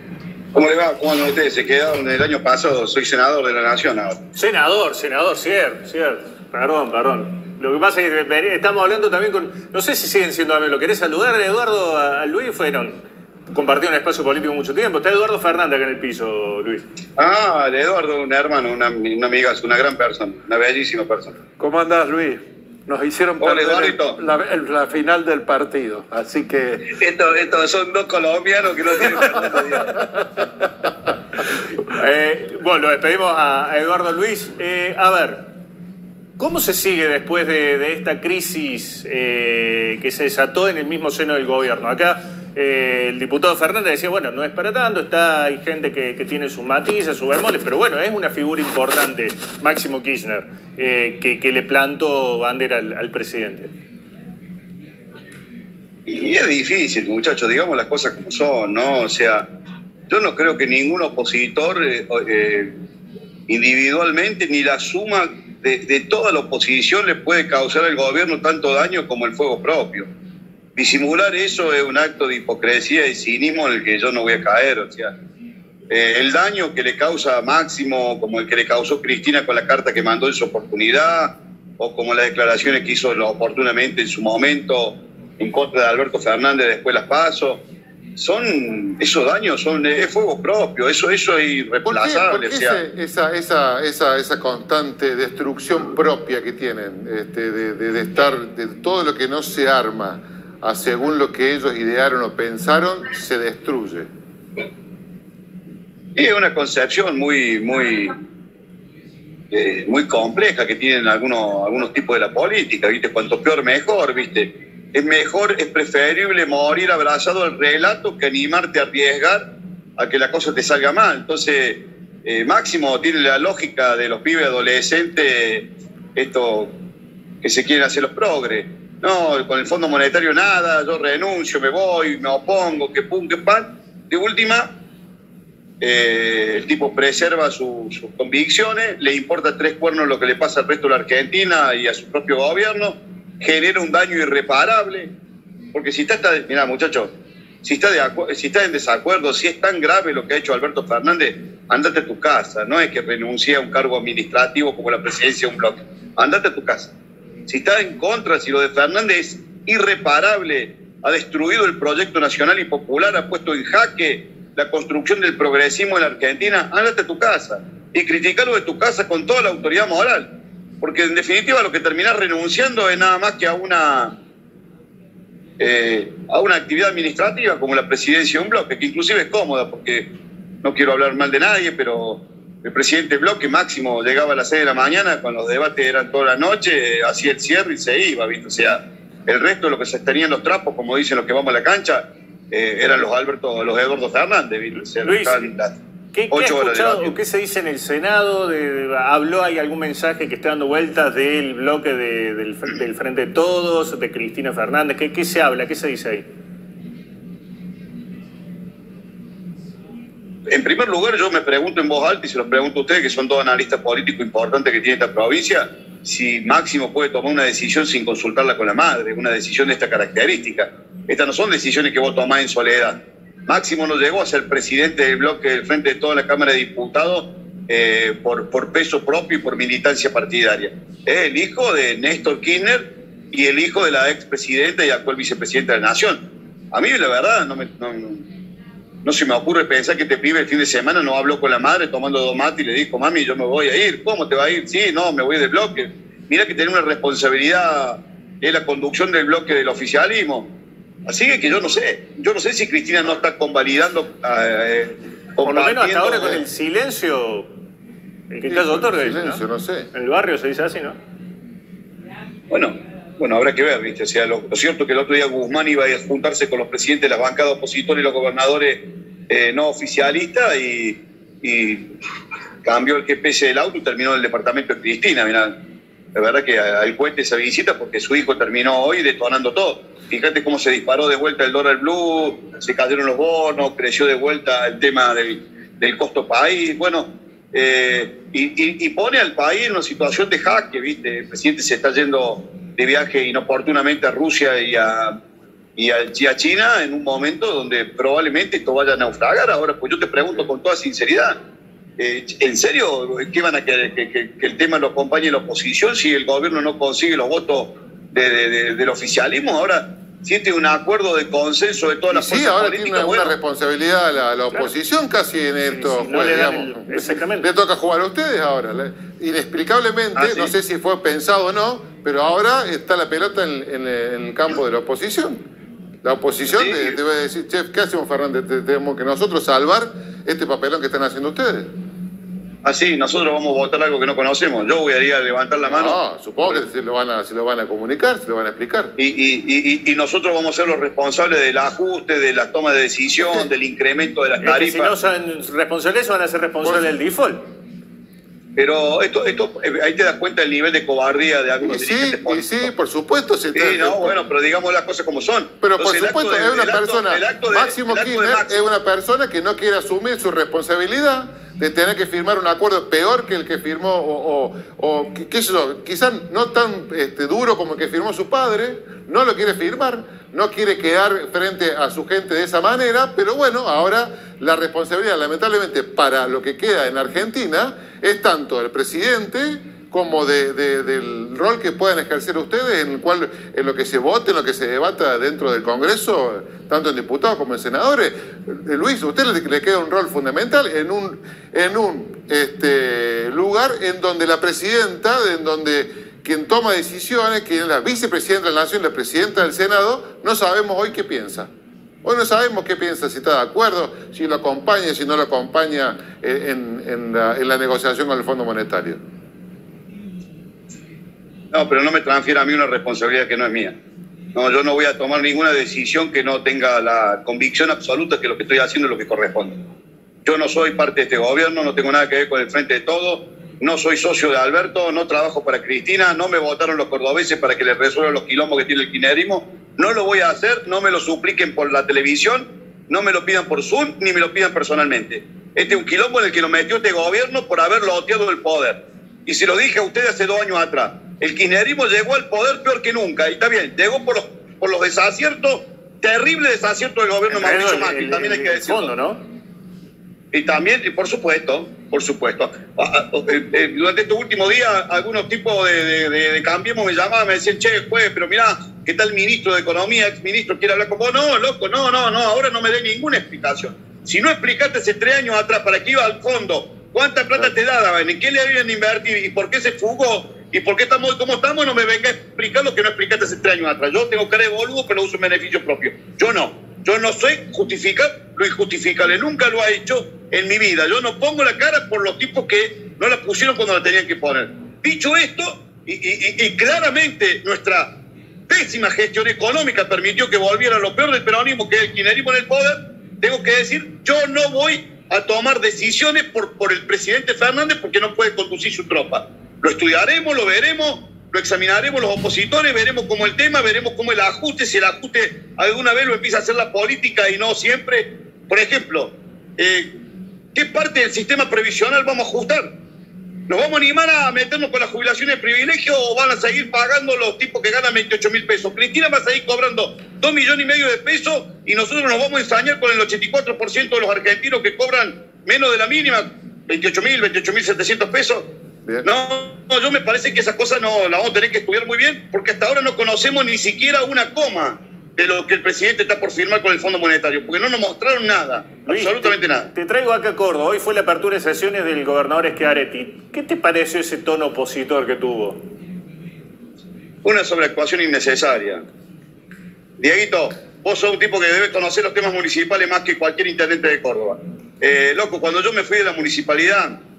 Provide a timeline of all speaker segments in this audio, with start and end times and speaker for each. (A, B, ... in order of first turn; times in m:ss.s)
0:00.5-0:04.2 A
0:04.3-0:16.8 B
0:17.2-0:21.3 A
0:21.6-0:26.9 C
0:23.4-0:24.2 A
0:26.9-0:30.0 A
0:31.9-0:35.5 B
0:36.4-0:53.7 B
0:56.1-0:59.4 A
1:00.1-1:02.7 A
1:03.5-1:10.1 A
1:10.8-1:15.1 A
1:15.9-1:27.6 A
1:28.2-1:32.8 A
1:31.8-1:44.1 D
1:46.2-1:48.1 A
1:49.5-1:59.4 A
2:00.0-2:06.7 A
2:07.4-2:14.7 A
2:15.8-2:25.1 A
2:25.7-2:27.1 A
2:27.6-2:36.9 A
2:37.5-2:50.3 A
2:50.8-2:54.1 A
2:55.6-3:00.1 A
3:00.6-3:15.7 A
3:15.0-3:15.5 B
3:16.1-3:26.2 B
3:16.3-3:17.2 A
3:30.5-3:58.2 A
3:59.0-4:10.5 A
4:11.1-4:16.4 A
4:15.4-4:17.5 B
4:18.3-4:19.4 B
4:18.5-4:19.9 D
4:19.9-4:21.0 B
4:22.5-4:31.9 A
4:32.6-4:35.5 A
4:36.1-4:55.1 A
4:55.8-5:01.3 A
5:02.0-5:13.3 A
5:12.1-5:25.4 D
5:15.6-5:17.5 B
5:20.1-5:20.5 A
5:26.0-5:31.7 D
5:26.5-5:27.0 A
5:32.6-5:36.6 A
5:35.6-5:38.9 D
5:39.0-5:44.9 A
5:44.4-5:47.4 B
5:46.6-5:46.9 D
5:48.6-5:52.7 A
5:51.6-5:54.2 D
5:53.5-5:58.6 A
5:55.6-6:41.5 D
6:42.0-6:49.0 D
6:51.5-6:53.7 A
6:54.3-6:59.6 A
7:00.2-7:28.9 A
7:27.3-7:29.2 B
7:30.3-8:07.9 A
8:08.5-8:29.9 A
8:30.5-8:32.7 A
8:33.5-8:48.4 A
8:49.0-8:59.7 A
8:58.9-9:05.6 B
9:07.2-9:08.8 A
9:10.0-9:17.0 A